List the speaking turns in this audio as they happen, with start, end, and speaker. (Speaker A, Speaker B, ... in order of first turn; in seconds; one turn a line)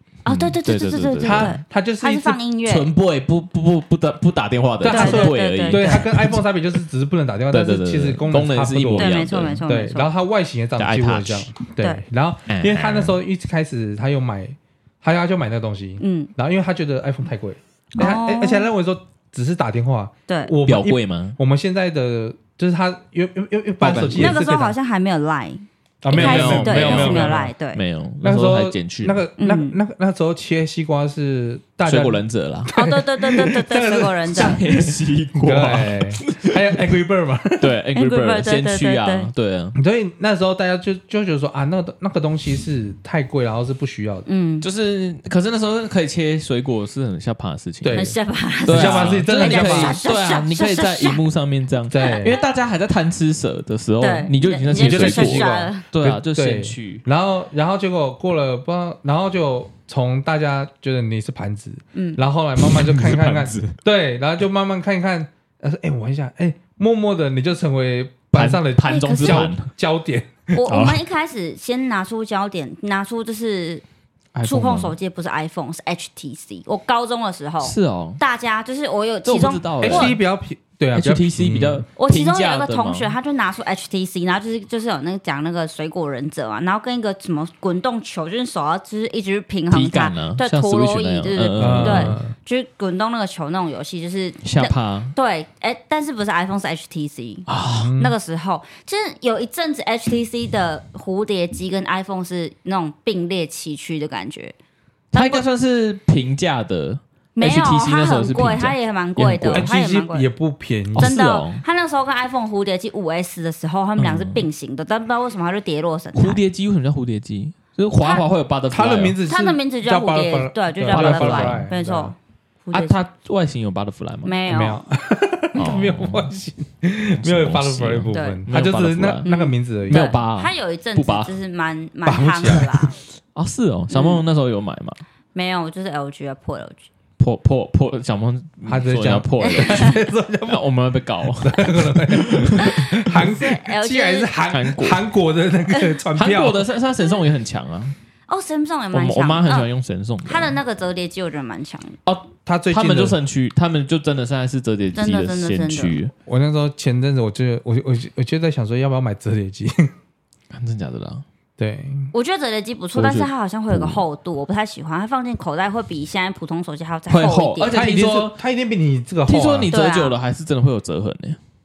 Speaker A: 0.2-2.9
Speaker B: 0.3-1.5
Speaker C: 1.2-2.4
Speaker B: 2.6-6.4
Speaker C: 4.8-24.7
Speaker A: 4.9-6.0
Speaker B: 7.5-9.6
Speaker A: 8.9-10.1
Speaker B: 10.8-11.5
Speaker B: 12.5-13.1
Speaker A: 16.0-16.3
Speaker A: 18.0-18.7
Speaker A: 20.3-20.5
Speaker B: 20.6-21.4
Speaker B: 23.8-24.4
Speaker A: 24.2-27.8
Speaker C: 26.0-27.5
Speaker B: 26.1-29.2
Speaker C: 28.2-37.7
Speaker A: 29.4-29.7
Speaker B: 31.9-32.7
Speaker A: 32.7-34.6
Speaker B: 34.3-36.7
Speaker B: 37.6-39.8
Speaker A: 37.9-39.3
Speaker C: 39.7-44.2
Speaker A: 44.3-44.6
Speaker B: 44.6-48.1
Speaker C: 47.8-48.1
Speaker A: 47.9-51.2
Speaker B: 48.6-57.0
Speaker C: 48.7-50.0
Speaker C: 51.9-52.4
Speaker A: 52.0-52.4
Speaker A: 54.0-55.9
Speaker C: 54.8-70.5
Speaker A: 61.9-62.2
Speaker B: 62.6-63.7
Speaker B: 68.3-69.7
Speaker A: 68.8-69.5
Speaker A: 70.5-73.8
Speaker B: 70.7-71.0
Speaker B: 74.3-75.0
Speaker A: 74.4-80.1
Speaker B: 77.6-78.2
Speaker B: 79.2-80.2
Speaker C: 79.8-81.8
Speaker B: 80.9-83.1
Speaker A: 82.0-104.5
Speaker B: 89.7-92.2
Speaker C: 91.6-92.3
Speaker B: 94.4-95.1
Speaker B: 97.5-97.9
Speaker C: 97.7-98.2
Speaker A: 105.1-105.4
Speaker B: 105.1-109.7
Speaker A: 107.3-110.3
Speaker C: 109.5-111.1
Speaker B: 110.9-111.6
Speaker A: 111.0-116.4
Speaker B: 114.0-114.5
Speaker B: 116.2-119.2
Speaker C: 118.7-122.1
Speaker A: 119.2-122.9
Speaker B: 120.9-121.7
Speaker B: 122.7-124.4
Speaker A: 124.2-124.8
Speaker C: 124.5-130.1
Speaker B: 125.5-126.4
Speaker B: 127.2-129.3
Speaker A: 128.1-128.4
Speaker A: 129.2-133.0
Speaker B: 129.9-131.3
Speaker C: 132.0-133.0
Speaker B: 133.3-135.0
Speaker A: 133.9-134.2
Speaker A: 135.3-136.8
Speaker B: 137.2-139.9
Speaker C: 138.6-140.6
Speaker A: 139.4-140.0
Speaker B: 140.4-143.2
Speaker C: 141.4-146.6
Speaker A: 142.6-144.3
Speaker B: 144.5-145.0
Speaker B: 146.1-147.9
Speaker A: 148.3-149.7
Speaker B: 148.9-150.5
Speaker A: 150.2-152.0
Speaker B: 152.1-156.1
Speaker C: 152.4-153.2
Speaker A: 154.9-156.0
Speaker C: 156.3-159.9
Speaker B: 160.5-161.2
Speaker C: 161.6-162.1
Speaker A: 162.1-167.8
Speaker B: 162.9-164.0
Speaker B: 167.1-168.4
Speaker C: 167.7-169.7
Speaker B: 169.3-171.4
Speaker A: 169.7-170.1